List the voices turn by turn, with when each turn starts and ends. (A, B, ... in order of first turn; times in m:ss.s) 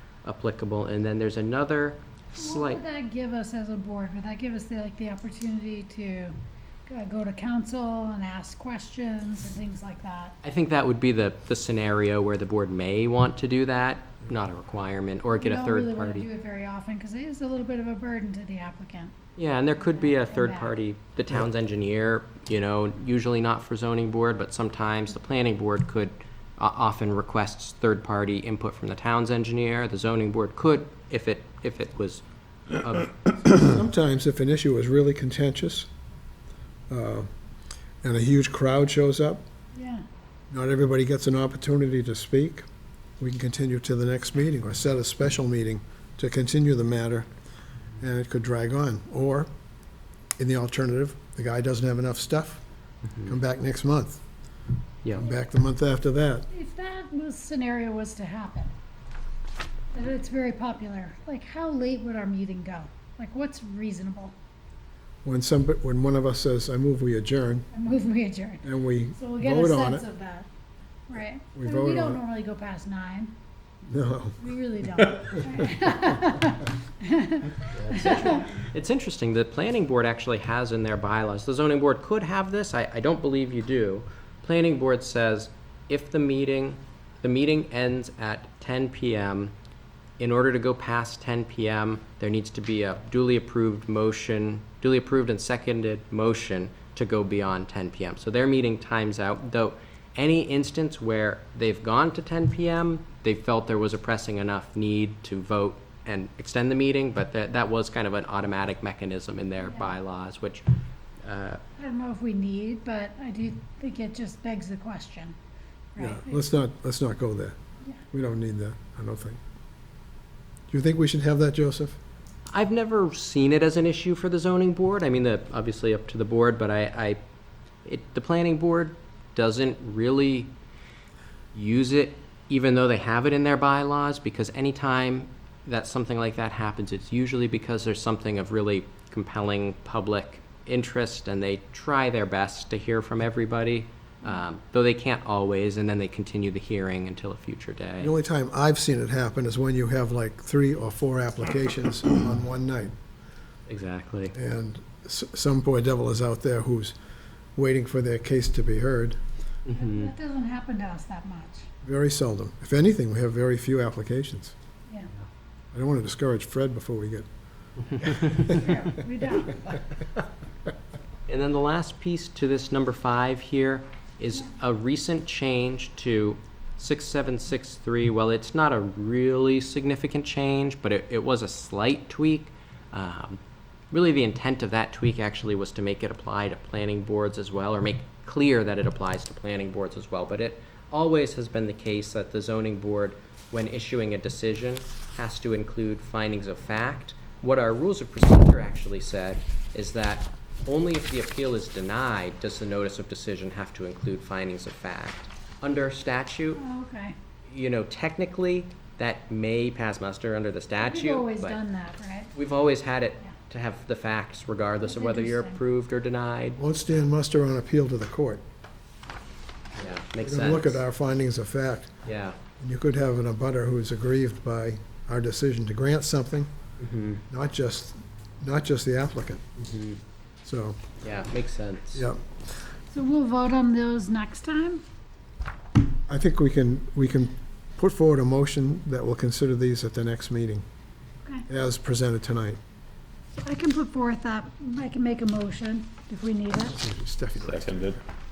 0:00.2-0:02.8 A
0:02.4-0:10.4 B
0:10.4-0:16.3 A
0:15.4-0:19.2 B
0:19.4-0:33.5 A
0:19.8-0:20.7 B
0:33.6-0:35.9 C
0:36.9-0:37.3 C
0:38.0-0:39.4 C
0:39.7-0:40.0 B
0:40.5-0:42.6 C
0:43.2-0:47.3 C
0:48.0-0:49.5 C
0:50.4-0:52.6 C
0:53.2-0:54.2 C
0:55.2-0:56.5 C
0:56.5-0:58.7 B
0:59.9-1:04.3 B
1:05.2-1:07.7 C
1:07.7-1:08.6 B
1:08.6-1:10.0 C
1:09.2-1:10.5 B
1:11.1-1:13.3 B
1:11.6-1:12.2 C
1:13.9-1:14.4 C
1:14.4-1:18.5 B
1:15.2-1:15.5 C
1:17.7-1:29.5 A
1:30.2-1:50.7 A
1:51.2-1:51.6 A
1:51.8-1:55.4 B
1:56.0-1:56.4 B
1:56.0-1:57.6 C
1:58.1-1:59.4 C
2:00.7-2:02.0 C
2:02.5-2:07.2 A
2:07.8-2:10.5 A
2:11.5-2:28.1 A
2:28.0-2:32.9 C
2:33.7-2:34.4 A
2:34.4-2:37.0 C
2:37.6-2:39.2 C
2:39.7-2:40.1 A
2:39.8-2:41.7 B
2:41.8-2:44.5 C
2:45.7-2:47.3 C
2:47.9-2:48.6 A
2:48.0-2:48.6 C
2:48.4-2:49.7 B
2:51.3-3:03.4 A
3:03.9-3:26.6 A
3:26.6-3:27.2 B
3:27.5-3:31.6 A
3:30.8-3:32.3 B
3:32.3-3:36.6 A
3:34.8-3:35.6 B
3:36.6-3:38.4 C
3:39.8-3:40.8 A
3:40.2-3:41.9 C
3:42.0-3:42.4 A
3:42.6-3:46.5 C
3:46.8-3:47.2 A
3:47.3-3:49.4 C
3:49.6-3:50.0 A
3:50.4-3:50.8 C
3:51.0-3:52.1 A
3:52.0-3:52.2 C
3:52.9-3:54.8 B
3:56.1-4:00.6 C
4:01.5-4:02.6 C
4:03.4-4:06.8 B
4:06.7-4:08.0 C